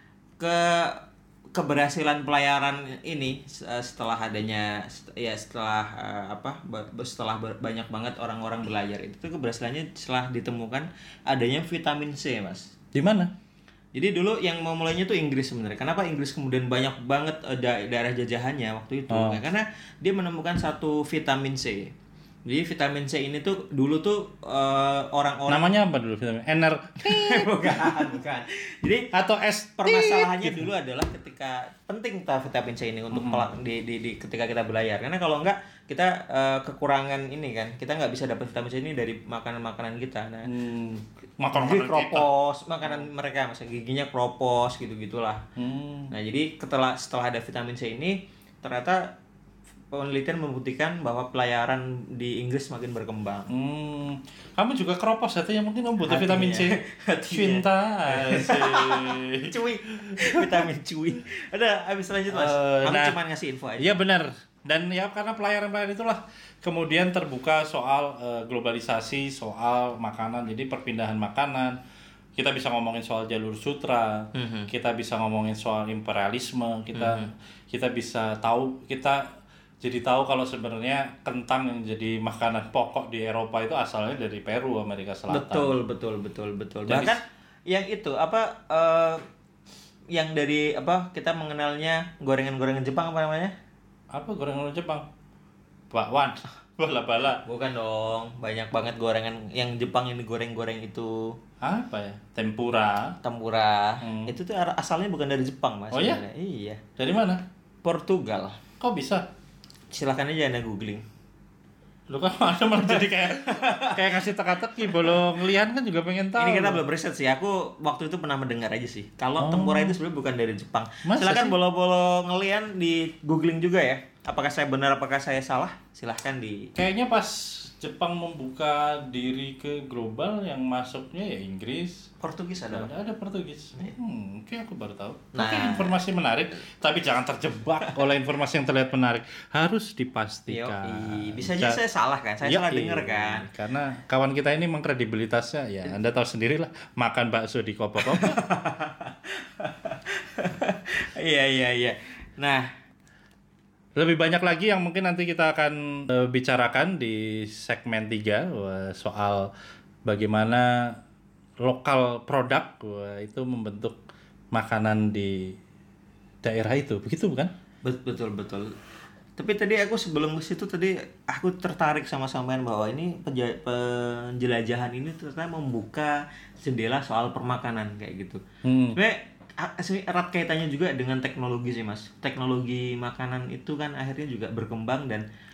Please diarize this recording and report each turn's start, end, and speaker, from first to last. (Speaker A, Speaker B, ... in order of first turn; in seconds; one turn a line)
Speaker A: 0.4-12.7
Speaker B: 12.9-13.3
Speaker A: 13.9-21.9
Speaker B: 19.1-19.4
Speaker A: 22.5-25.7
Speaker B: 25.5-28.1
Speaker A: 27.0-29.1
Speaker B: 29.1-30.6
Speaker A: 29.8-40.5
Speaker B: 33.1-33.5
Speaker B: 40.5-42.3
Speaker A: 41.5-45.4
Speaker B: 45.6-46.1
Speaker A: 46.1-49.1
Speaker A: 49.9-53.5
Speaker B: 53.5-56.8
Speaker A: 56.1-64.0
Speaker B: 57.3-60.5
Speaker B: 62.3-63.2
Speaker B: 63.8-71.8
Speaker B: 72.4-79.2
Speaker A: 74.3-74.7
Speaker A: 76.9-77.3
Speaker B: 79.8-85.8
Speaker A: 85.3-89.2
Speaker B: 86.9-87.2
Speaker A: 90.1-93.5
Speaker B: 94.1-95.1
Speaker B: 95.9-97.4
Speaker A: 97.5-101.4
Speaker B: 101.6-103.2
Speaker A: 103.2-106.8
Speaker B: 104.0-104.4
Speaker B: 105.9-106.2
Speaker B: 107.0-107.4
Speaker A: 107.8-108.6
Speaker B: 108.8-109.3
Speaker A: 109.9-111.0
Speaker B: 112.1-116.8
Speaker A: 112.8-114.2
Speaker A: 114.8-115.2
Speaker A: 116.4-126.7
Speaker B: 119.4-120.0
Speaker B: 121.0-121.6
Speaker B: 126.8-132.1
Speaker A: 132.2-132.9
Speaker B: 132.7-141.8
Speaker A: 135.3-136.0
Speaker A: 140.5-143.5
Speaker B: 142.4-148.4
Speaker A: 148.0-152.7
Speaker B: 154.0-159.5
Speaker B: 160.1-161.0
Speaker B: 161.6-164.0
Speaker B: 164.5-165.6
Speaker B: 166.4-167.5
Speaker A: 167.8-168.7
Speaker A: 169.4-178.4
Speaker B: 178.6-179.0
Speaker A: 178.9-185.2